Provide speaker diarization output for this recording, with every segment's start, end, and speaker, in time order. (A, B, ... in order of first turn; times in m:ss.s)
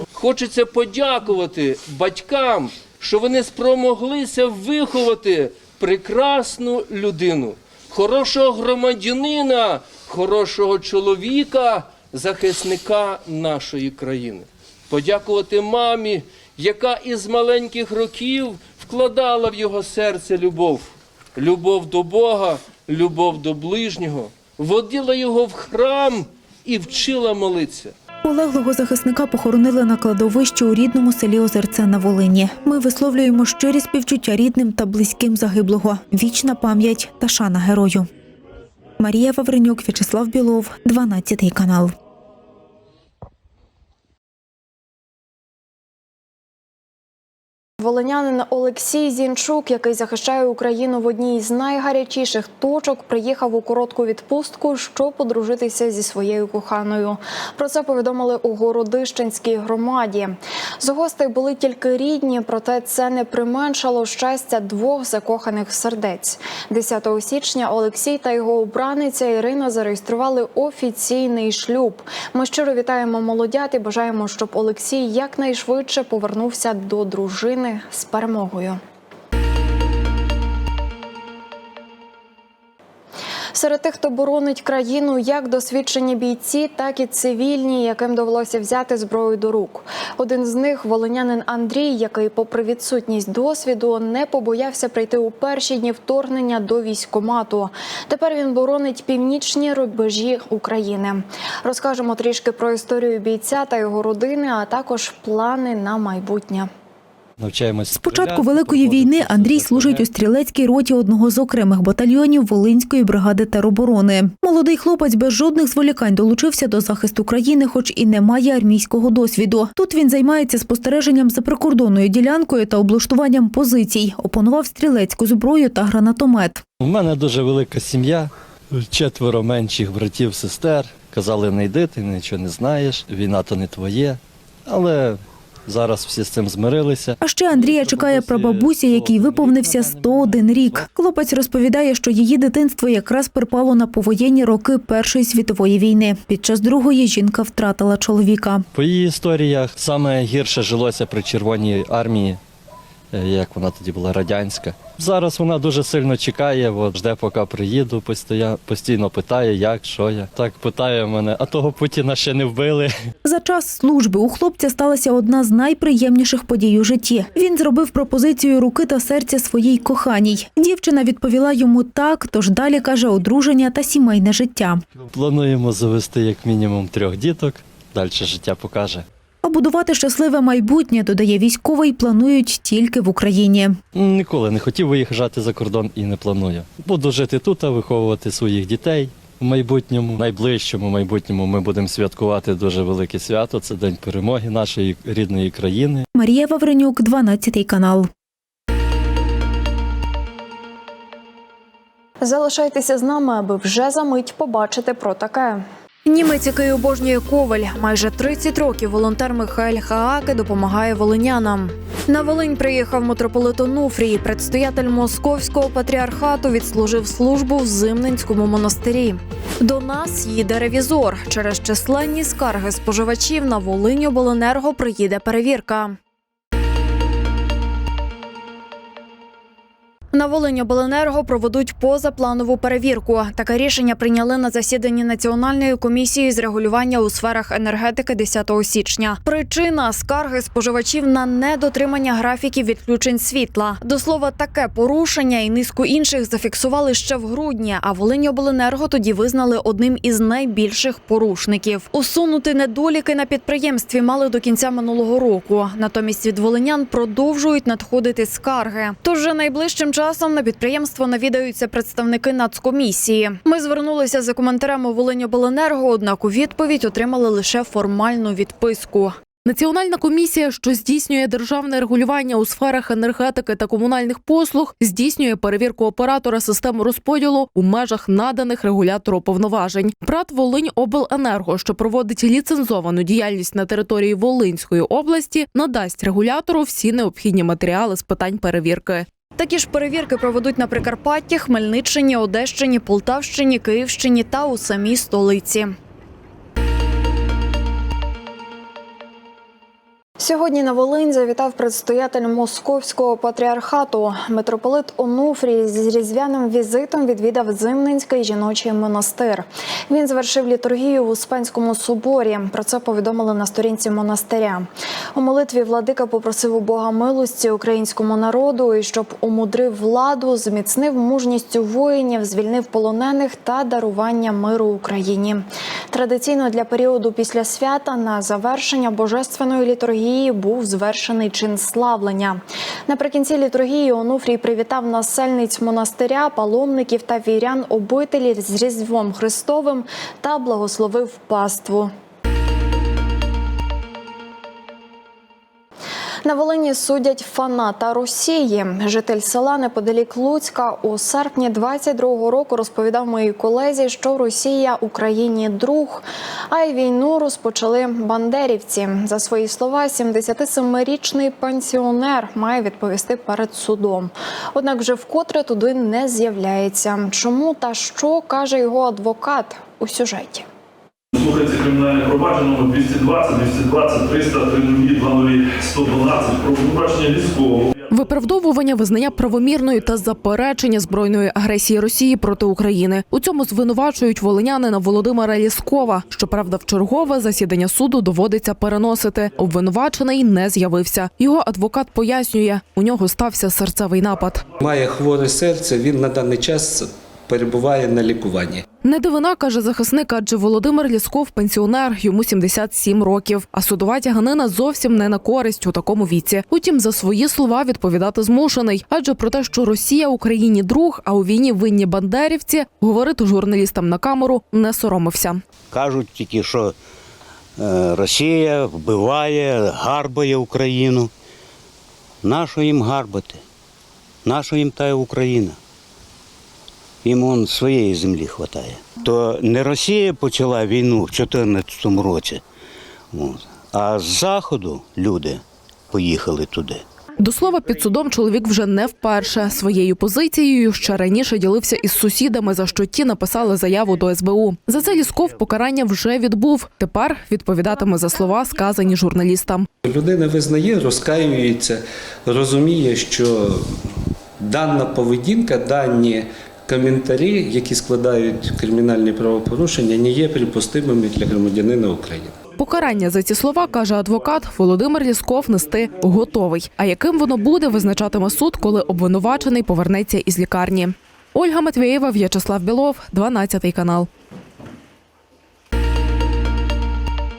0:00.2-0:27.9 A
0:28.2-0:38.1 B
0:39.0-0:41.9 B
0:47.8-1:18.8 C
1:23.5-1:46.7 C
1:47.4-1:50.1 D
1:47.9-2:06.6 B
2:06.8-2:20.9 D
2:17.2-2:28.6 B
2:28.7-2:32.4 D
2:33.1-2:42.9 D
2:43.2-2:54.8 B
2:55.1-2:59.0 D
2:59.4-3:03.8 B
3:03.9-3:16.0 D
3:16.1-3:18.1 B
3:22.2-3:46.0 C
3:50.1-4:29.2 C
4:29.5-4:49.1 E
4:49.4-4:55.8 C
5:00.2-5:41.9 C
5:46.2-6:10.5 C
6:11.1-6:17.8 F
6:17.9-6:34.4 E
6:34.6-6:38.6 G
6:38.8-6:55.4 E
6:55.7-6:56.7 H
6:57.6-7:01.1 H
7:02.2-7:03.4 H
7:04.2-7:05.6 H
7:07.0-7:12.4 H
7:13.1-7:16.8 H
7:17.2-7:29.7 E
7:29.8-7:33.8 G
7:34.4-7:42.4 G
7:42.6-7:54.1 E